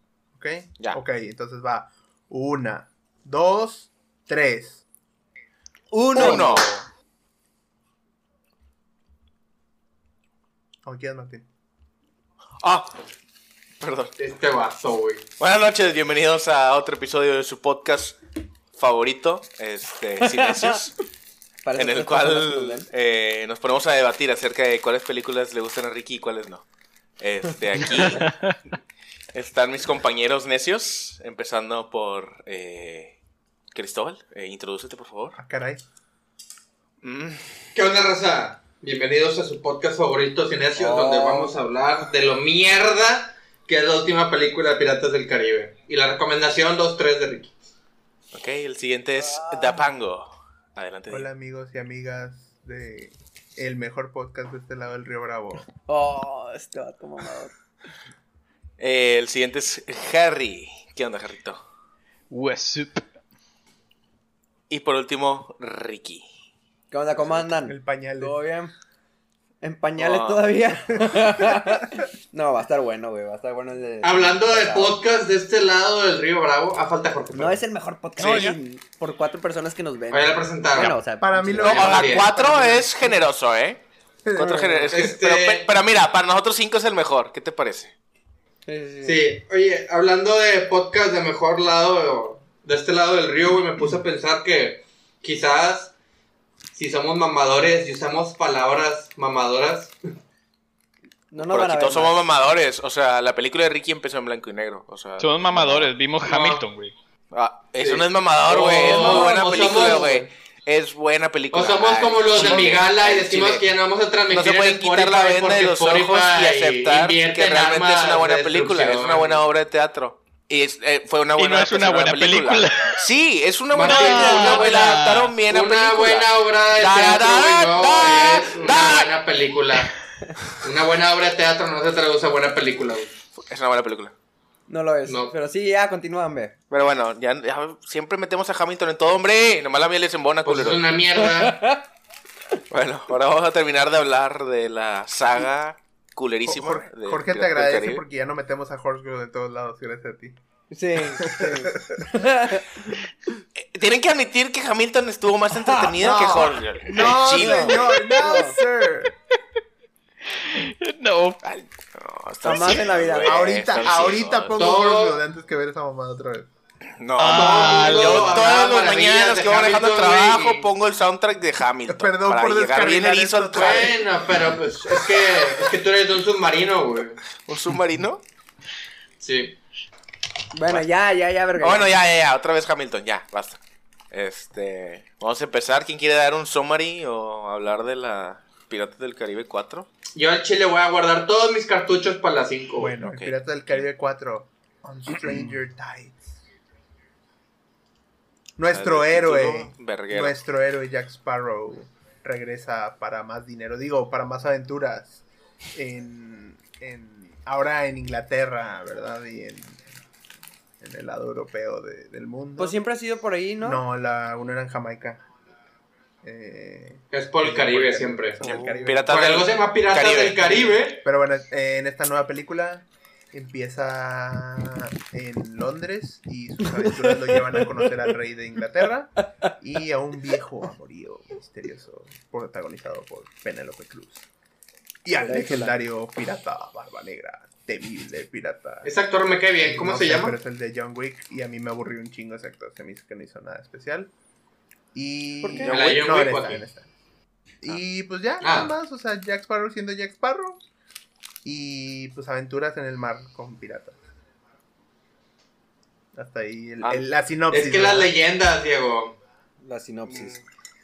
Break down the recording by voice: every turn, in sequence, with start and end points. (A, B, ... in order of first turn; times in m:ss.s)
0:00.3-0:04.8 A
0:05.9-0:06.8 B
0:06.1-0:06.7 C
0:10.8-0:11.4 A
0:12.6-0:12.9 B
0:13.8-0:14.1 B
0:14.2-0:15.2 D
0:15.4-0:18.2 B
0:18.7-0:20.9 B
0:20.2-0:20.8 C
0:21.6-0:22.9 C
0:21.8-0:26.6 B
0:27.2-0:28.3 B
0:28.2-0:28.5 E
0:29.3-0:33.1 B
0:33.7-0:35.4 B
0:35.4-0:35.8 A
0:37.0-0:37.6 B
0:37.7-0:47.6 D
0:40.8-0:41.5 C
0:48.3-0:51.3 B
0:49.2-0:49.8 C
0:51.1-0:55.7 A
0:55.8-0:57.5 C
0:58.8-1:01.6 B
1:02.3-1:03.0 E
1:04.7-1:06.2 B
1:06.9-1:08.7 C
1:07.6-1:08.4 A
1:09.6-1:15.0 C
1:10.0-1:10.4 B
1:11.1-1:11.7 A
1:14.0-1:17.6 D
1:17.3-1:23.2 C
1:18.2-1:18.6 B
1:20.1-1:21.0 D
1:21.2-1:22.1 A
1:21.6-1:23.8 B
1:21.6-1:22.3 D
1:24.2-1:24.8 A
1:24.4-1:27.9 B
1:24.4-1:24.9 C
1:24.9-1:25.7 D
1:28.6-1:29.2 C
1:29.0-1:35.9 D
1:36.7-1:39.9 D
1:41.3-1:42.2 C
1:41.4-1:45.9 B
1:45.2-1:46.9 E
1:46.2-1:46.6 D
1:47.3-1:53.6 B
1:47.8-1:50.2 D
1:48.9-1:49.6 C
1:51.5-1:59.4 D
1:54.3-2:09.1 B
2:01.4-2:03.1 E
2:03.7-2:10.0 D
2:03.8-2:05.3 E
2:10.6-2:13.1 D
2:13.4-2:14.1 B
2:14.7-2:16.5 C
2:15.0-2:15.3 D
2:16.7-2:20.8 B
2:20.4-2:21.6 D
2:21.2-2:21.8 C
2:22.7-2:28.0 B
2:26.4-2:30.4 A
2:30.7-2:32.9 C
2:31.1-2:32.1 A
2:33.6-2:37.9 B
2:35.5-2:36.5 C
2:36.0-2:39.1 A
2:37.1-2:38.6 C
2:40.3-2:41.4 E
2:41.4-2:44.6 B
2:42.4-2:43.6 C
2:42.5-2:46.5 A
2:44.6-2:45.2 D
2:47.0-2:54.0 B
2:47.2-2:48.5 E
2:47.3-2:50.7 D
2:51.9-2:54.0 A
2:53.5-2:57.2 D
2:57.4-2:58.2 B
2:59.2-2:59.6 D
3:00.5-3:01.9 C
3:01.6-3:03.6 B
3:04.1-3:09.9 B
3:10.1-3:12.9 D
3:12.8-3:16.4 A
3:13.0-3:13.8 B
3:18.6-3:25.2 A
3:18.7-3:20.3 B
3:25.7-3:29.8 A
3:30.8-3:32.7 A
3:32.6-3:33.8 C
3:33.6-3:35.2 A
3:36.2-3:39.1 A
3:37.1-3:38.4 D
3:38.4-3:40.8 B
3:39.1-3:41.0 D
3:41.0-3:54.2 A
3:46.8-3:47.6 C
3:55.0-3:58.9 A
3:55.2-3:55.7 C
3:58.8-4:00.4 D
3:59.6-4:04.1 A
4:04.9-4:06.9 A
4:05.4-4:06.0 B
4:05.7-4:06.6 D
4:07.6-4:10.6 A
4:08.4-4:08.7 D
4:11.4-4:14.0 A
4:16.1-4:18.1 A
4:17.5-4:19.2 D
4:19.6-4:20.4 C
4:20.1-4:20.4 B